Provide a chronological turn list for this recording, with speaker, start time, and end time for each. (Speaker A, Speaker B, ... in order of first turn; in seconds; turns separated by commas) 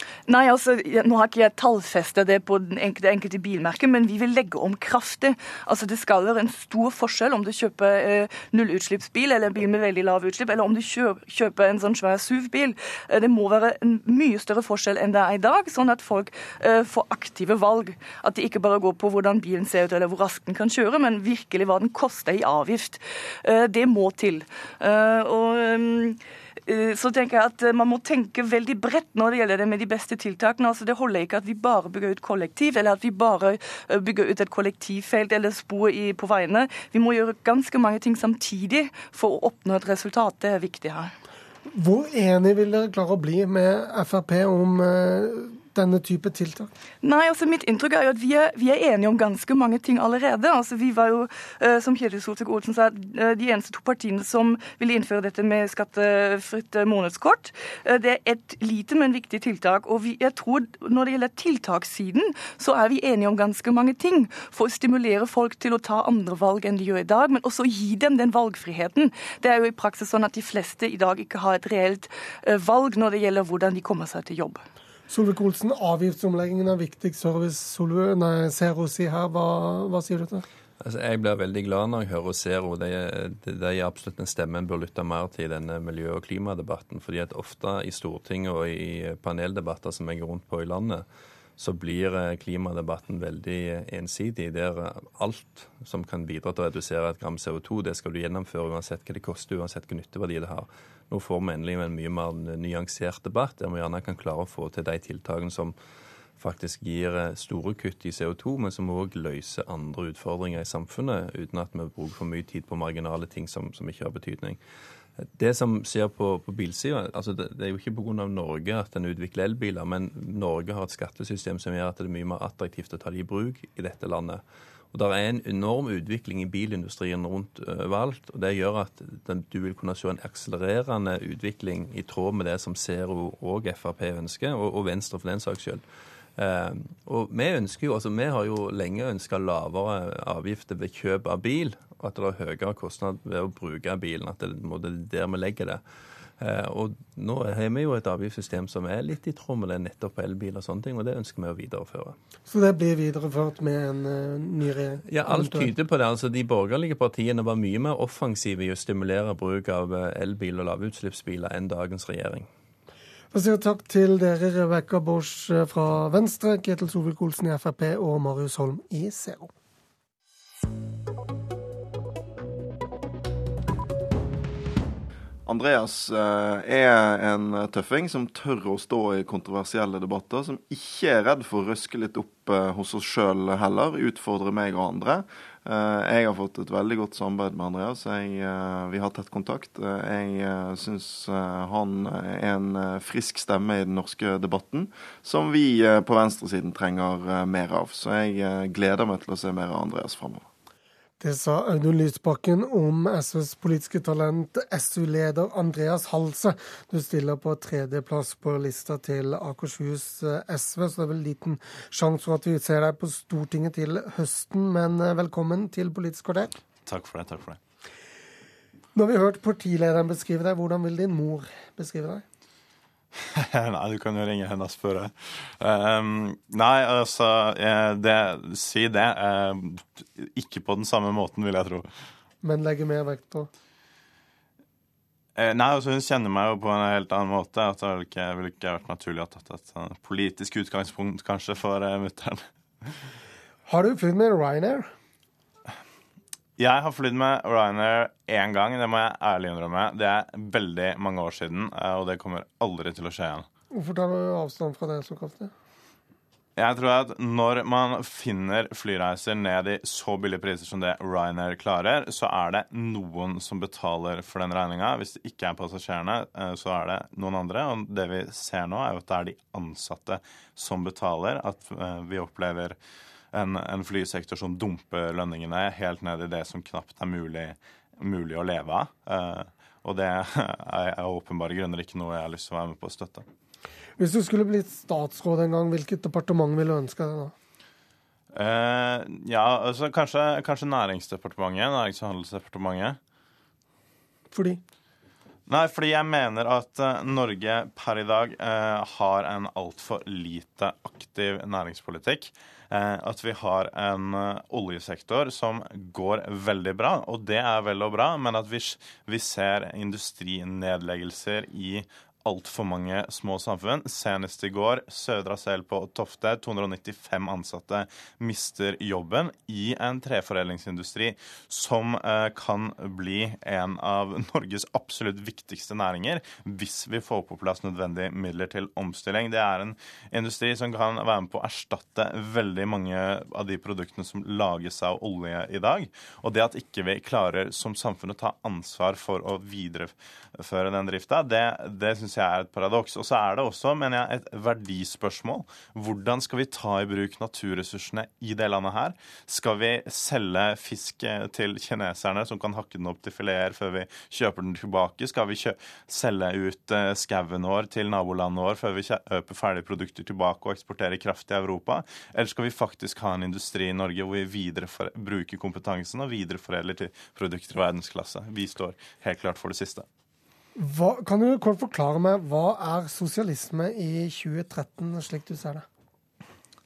Speaker A: 0.3-41.1, Speaker B: 41.7-46.7, Speaker A: 47.0-74.6, Speaker B: 75.1-80.4, Speaker C: 80.8-91.0, Speaker C: 91.6-105.8, Speaker C: 106.4-114.6, Speaker C: 115.2-124.4, Speaker C: 124.9-135.8, Speaker C: 136.4-145.8, Speaker C: 146.4-152.2, Speaker B: 152.5-155.7, Speaker C: 155.1-162.5, Speaker B: 163.3-169.5, Speaker D: 175.5-200.5, Speaker B: 201.2-216.5, Speaker E: 216.8-217.6, Speaker B: 218.9-222.2, Speaker E: 223.4-231.9, Speaker B: 232.4-233.5, Speaker E: 235.4-242.4, Speaker B: 243.7-244.9, Speaker E: 246.6-253.5, Speaker B: 253.7-255.5, Speaker E: 256.6-272.8, Speaker E: 273.3-283.2, Speaker B: 284.0-287.3, Speaker E: 288.3-293.0, Speaker B: 294.3-294.6, Speaker E: 295.5-369.9, Speaker B: 370.6-375.6